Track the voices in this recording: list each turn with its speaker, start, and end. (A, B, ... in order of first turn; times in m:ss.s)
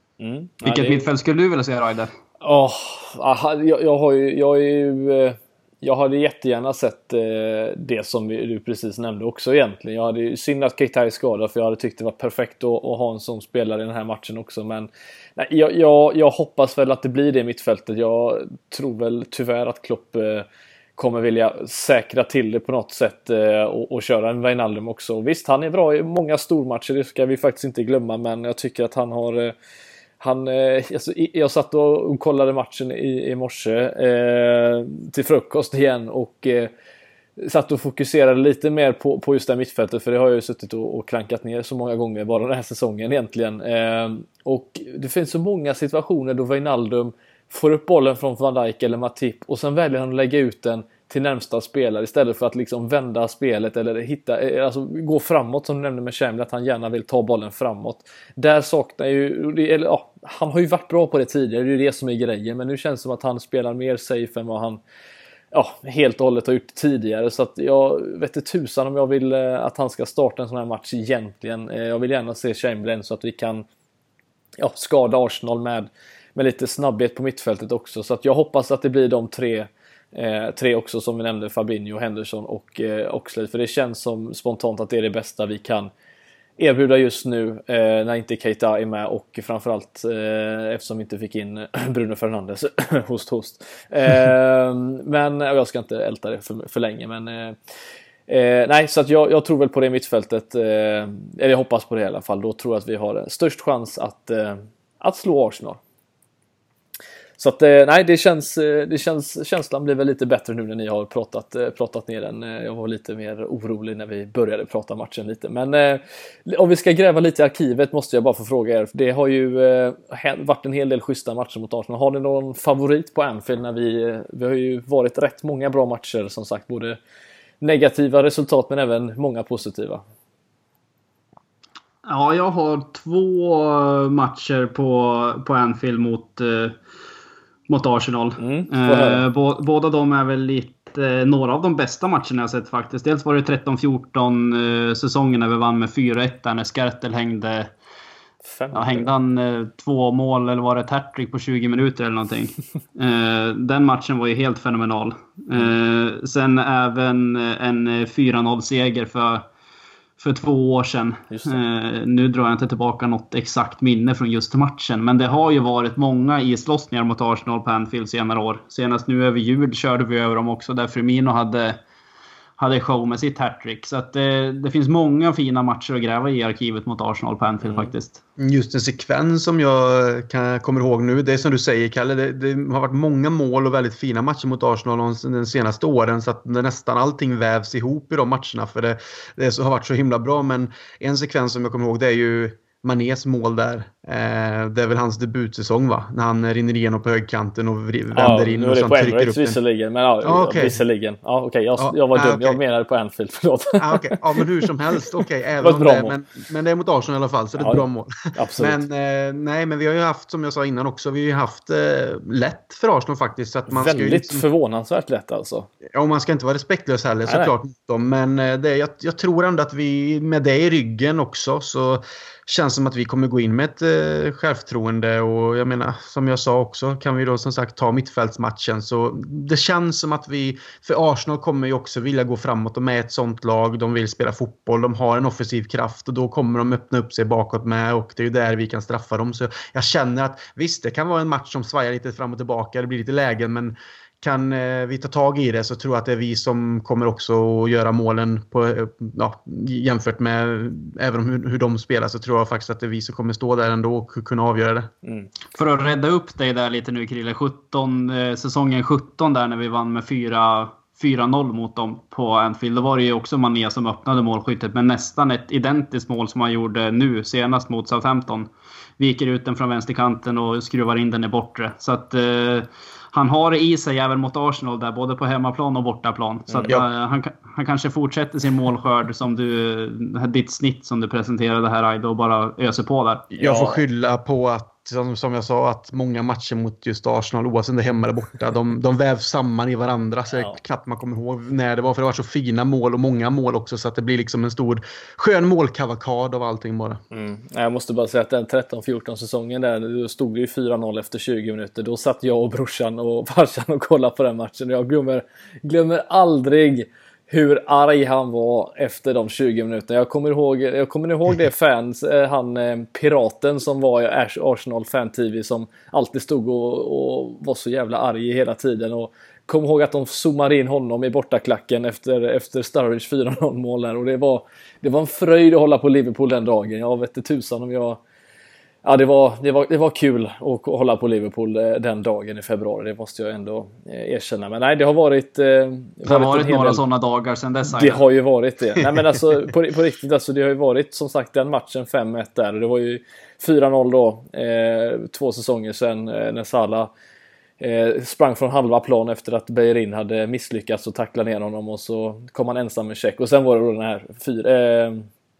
0:00.2-0:01.0 A
0:00.6-0:02.1 B
0:02.4-0:29.5 A
0:30.2-0:36.7 A
0:37.4-1:04.8 A
1:05.5-1:13.6 A
1:14.6-1:25.9 A
1:26.6-1:37.6 A
1:38.3-1:45.8 A
1:47.4-2:07.0 A
2:07.6-2:10.0 A
2:12.0-2:16.8 B
2:17.7-2:27.7 B
2:18.4-2:19.2 A
2:28.4-2:29.1 A
2:28.7-2:39.4 B
2:40.2-2:51.8 B
2:41.3-2:41.6 A
2:52.6-2:58.2 B
2:58.4-3:19.6 C
3:18.1-3:24.4 A
3:20.2-3:20.8 C
3:21.8-3:22.6 C
3:23.8-3:34.4 C
3:25.6-3:26.2 A
3:27.6-3:27.8 A
3:28.3-3:28.8 A
3:33.7-3:35.7 A
3:35.9-4:14.9 C
3:37.2-3:37.5 A
4:15.0-4:15.3 A
4:15.5-4:43.3 B
4:36.5-4:36.7 A
4:43.4-4:57.0 C
4:43.4-4:43.8 A
4:57.1-5:28.0 A
5:28.8-5:36.8 A
5:36.0-5:38.0 B
5:37.7-5:46.9 A
5:47.6-5:55.1 A